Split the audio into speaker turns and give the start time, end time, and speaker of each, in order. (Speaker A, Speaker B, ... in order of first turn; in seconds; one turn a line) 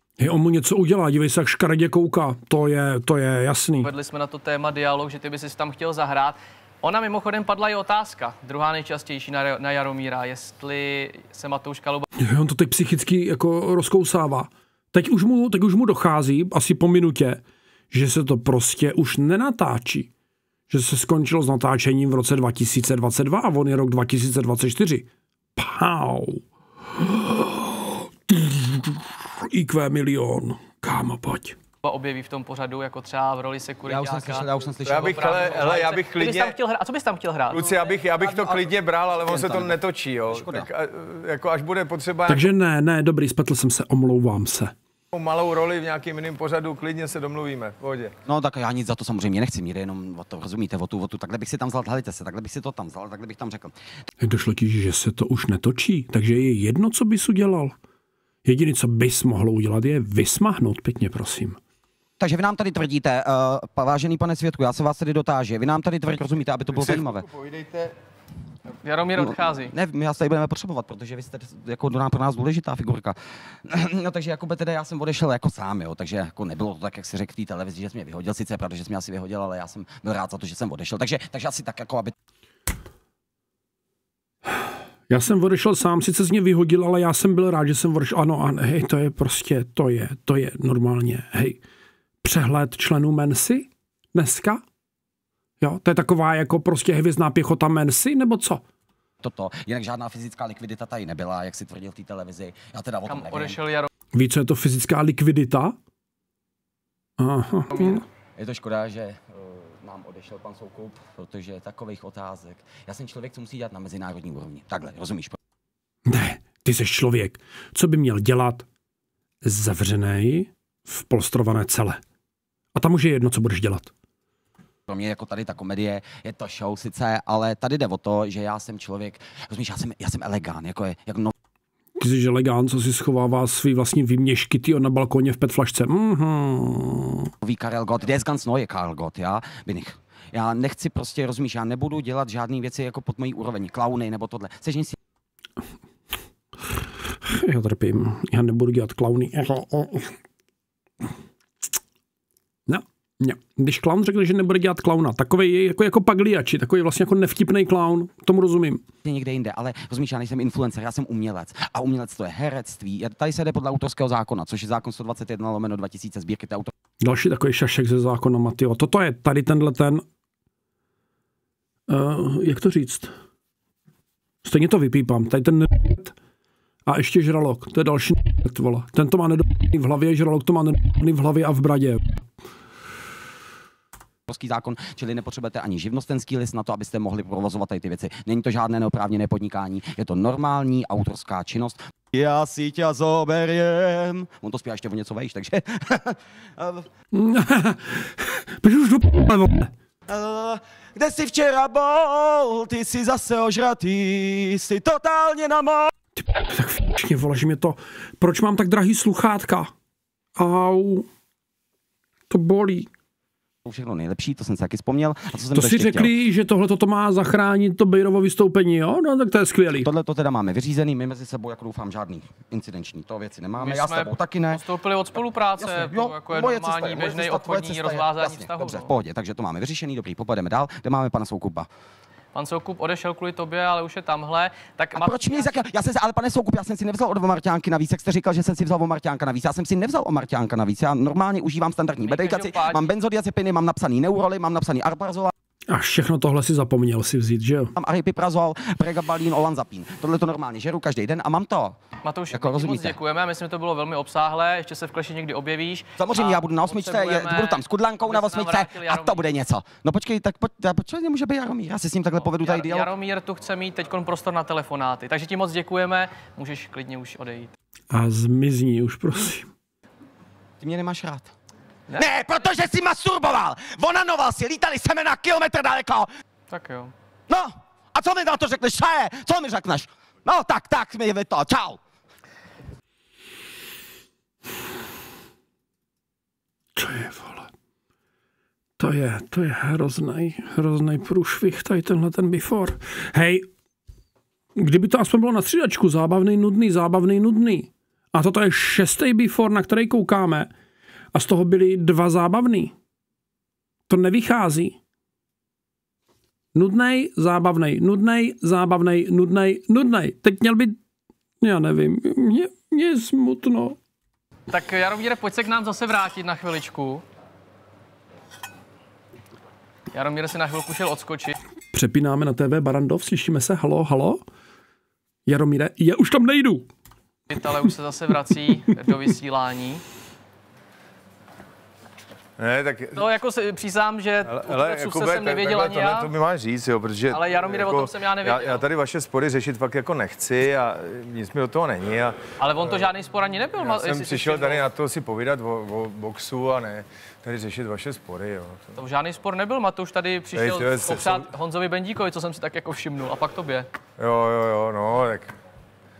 Speaker A: 0.2-3.9
Speaker B: 3.8-12.0
Speaker A: 12.2-20.1
Speaker A: 20.7-26.4
Speaker A: 26.9-31.6
Speaker B: 31.8-38.0
Speaker C: 33.8-35.7
Speaker D: 34.9-36.5
Speaker D: 37.5-42.5
Speaker C: 38.2-40.7
Speaker A: 42.3-44.7
Speaker D: 45.1-48.1
Speaker C: 48.2-53.7
Speaker A: 54.2-57.8
Speaker A: 58.4-61.6
Speaker C: 62.2-67.3
Speaker D: 66.7-67.9
Speaker B: 68.7-69.7
Speaker C: 69.2-82.1
Speaker A: 85.1-91.6
Speaker A: 92.2-94.6
Speaker A: 95.6-98.6
Speaker C: 99.2-103.6
Speaker B: 103.1-103.9
Speaker A: 104.1-105.8
Speaker A: 107.2-108.0
Speaker B: 107.7-108.0
Speaker C: 108.3-115.4
Speaker A: 116.1-118.7
Speaker A: 119.4-122.0
Speaker A: 122.7-123.9
Speaker C: 124.9-131.3
Speaker A: 132.0-137.3
Speaker C: 137.4-144.9
Speaker A: 147.2-150.1
Speaker A: 152.7-158.8
Speaker C: 159.0-166.7
Speaker A: 167.0-170.0
Speaker A: 171.9-173.1
Speaker A: 174.4-176.1
Speaker A: 176.8-182.2
Speaker C: 184.3-196.9
Speaker A: 197.1-199.7
Speaker C: 200.1-205.9
Speaker A: 206.2-209.7
Speaker A: 210.4-211.1
Speaker A: 212.3-212.9
Speaker C: 213.6-216.1
Speaker A: 215.5-219.9
Speaker C: 219.8-224.6
Speaker B: 223.6-228.9
Speaker C: 225.6-231.7
Speaker B: 232.3-235.6
Speaker C: 234.9-245.3
Speaker B: 242.0-242.9
Speaker A: 245.7-247.7
Speaker C: 247.8-251.8
Speaker B: 252.0-259.2
Speaker C: 252.3-253.0
Speaker C: 256.0-262.9
Speaker B: 262.2-267.5
Speaker A: 267.9-269.5
Speaker C: 270.6-271.3
Speaker C: 271.9-276.1
Speaker B: 276.5-276.9
Speaker C: 277.3-281.8
Speaker A: 286.8-287.5
Speaker A: 288.8-293.5
Speaker A: 294.6-300.5
Speaker A: 301.1-302.7
Speaker A: 303.9-304.8
Speaker A: 306.5-310.8
Speaker A: 311.4-313.8
Speaker B: 314.5-317.0
Speaker B: 319.9-321.4
Speaker A: 321.7-324.2
Speaker A: 325.2-326.7
Speaker B: 327.3-329.8
Speaker D: 332.4-333.0
Speaker B: 332.9-336.1
Speaker D: 334.2-342.9
Speaker B: 337.1-338.6
Speaker B: 342.4-344.6
Speaker D: 343.6-348.7
Speaker B: 348.8-353.7
Speaker D: 350.3-351.3
Speaker D: 354.0-355.3